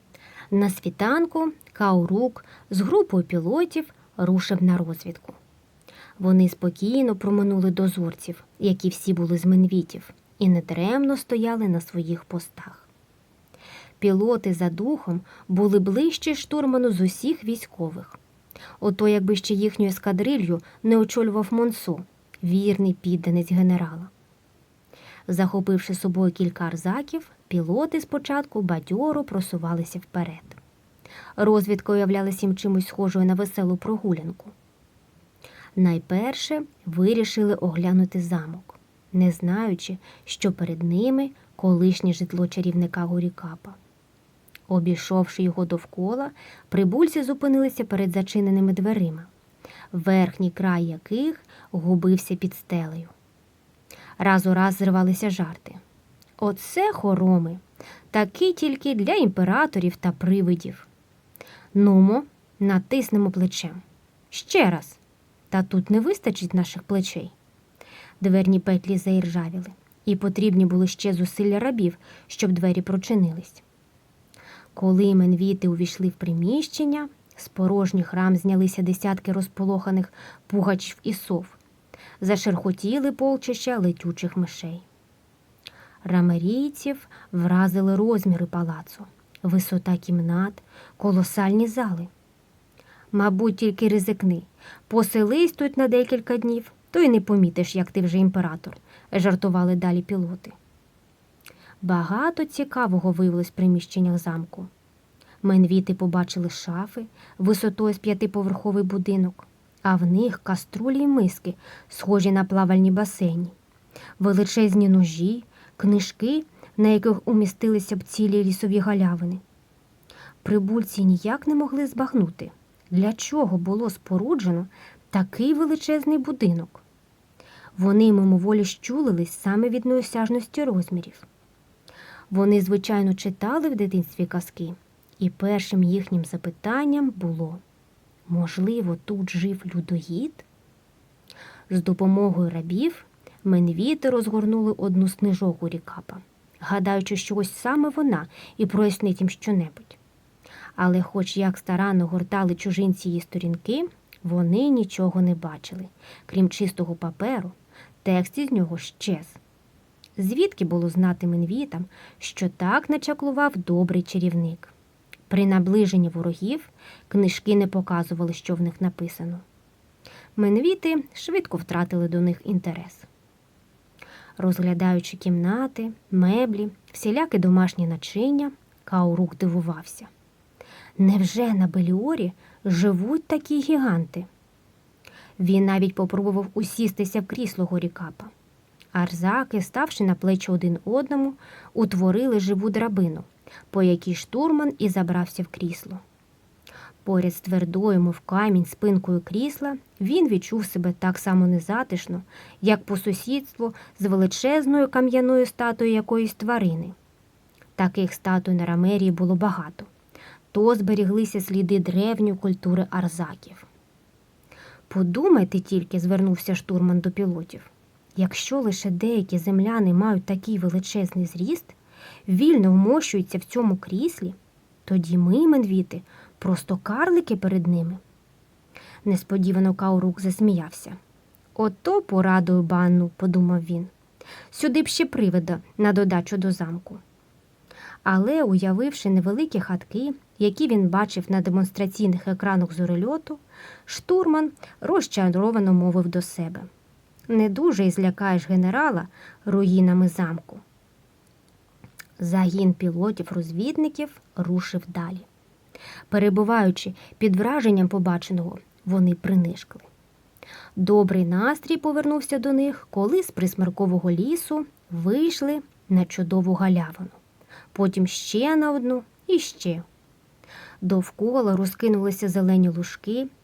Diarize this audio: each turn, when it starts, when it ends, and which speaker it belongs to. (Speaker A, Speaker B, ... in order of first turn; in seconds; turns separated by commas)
Speaker A: 0.5-5.4, Speaker A: 6.2-12.9, Speaker A: 14.0-18.2, Speaker A: 18.8-24.1, Speaker A: 25.3-30.6, Speaker A: 31.4-34.5, Speaker A: 35.8-43.8, Speaker A: 44.7-49.3, Speaker A: 49.9-53.1, Speaker A: 54.2-55.8, Speaker A: 56.4-60.9, Speaker A: 61.7-65.0, Speaker A: 65.5-67.3, Speaker A: 68.2-73.6, Speaker A: 74.7-81.6, Speaker A: 82.2-84.8, Speaker A: 86.0-92.1, Speaker A: 93.1-100.5, Speaker A: 101.8-104.7, Speaker A: 105.4-113.5, Speaker A: 114.2-119.4, Speaker A: 120.4-126.8, Speaker A: 127.8-131.2, Speaker A: 132.3-137.6, Speaker A: 138.3-140.4, Speaker A: 141.7-150.0, Speaker A: 150.8-159.4, Speaker A: 160.2-164.7, Speaker A: 165.3-169.4, Speaker A: 170.3-173.1, Speaker A: 174.4-180.1, Speaker A: 181.0-184.3, Speaker A: 185.4-188.3, Speaker A: 188.9-196.0, Speaker A: 197.0-206.9, Speaker A: 207.8-209.9, Speaker A: 210.5-213.7, Speaker A: 214.9-228.0, Speaker A: 229.0-231.0, Speaker A: 231.5-233.9, Speaker A: 234.5-237.0, Speaker A: 238.0-246.7, Speaker A: 247.3-250.6, Speaker A: 252.2-255.3, Speaker A: 256.1-259.9, Speaker A: 260.8-267.2, Speaker A: 267.7-269.8, Speaker A: 270.8-273.3